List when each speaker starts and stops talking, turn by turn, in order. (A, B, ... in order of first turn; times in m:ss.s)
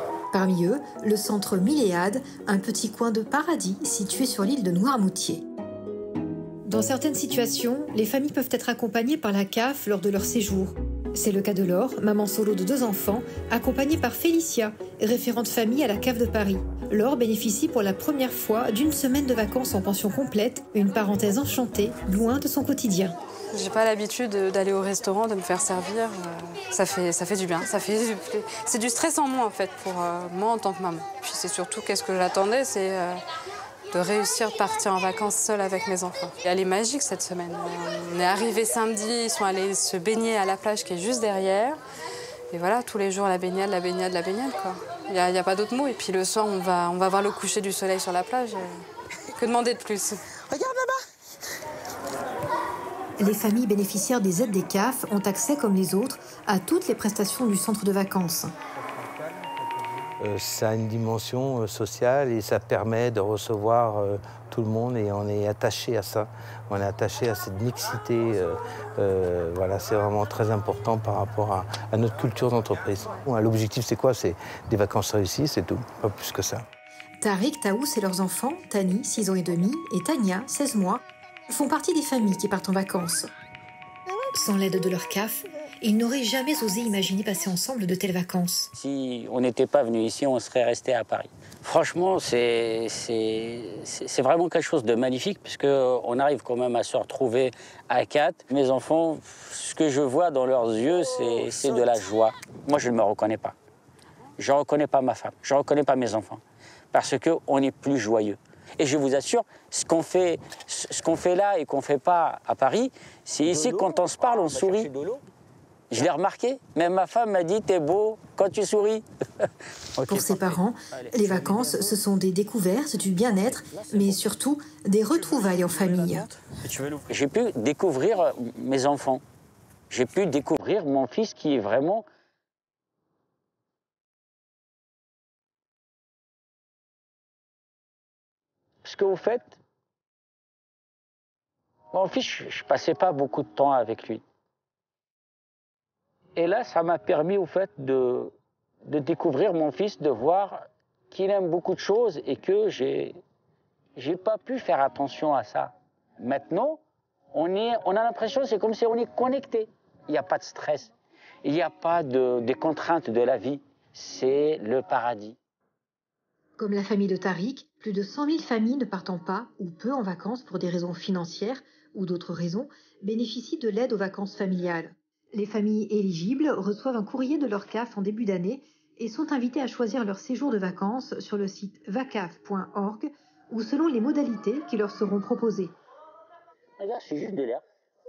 0:00.3-0:05.4 A
0:06.7-0:23.2 A
0:23.5-0:33.2 B
0:33.9-0:41.8 B
0:42.5-0:50.2 B
0:53.2-0:58.5 A
1:00.2-1:16.6 C
1:17.2-1:23.3 A
1:24.3-1:28.7 A
1:28.7-1:43.6 D
1:44.4-1:46.4 D
1:46.9-1:54.9 D
1:55.9-2:01.5 D
2:00.1-2:06.3 A
2:06.5-2:09.2 D
2:09.9-2:12.1 D
2:18.8-2:19.6 D
2:21.9-2:24.2 D
2:26.4-2:28.3 D
2:28.8-2:33.2 D
2:34.0-2:36.8 D
2:37.3-2:40.9 D
2:41.4-2:45.4 D
2:46.6-3:05.7 A
3:06.8-3:07.6 D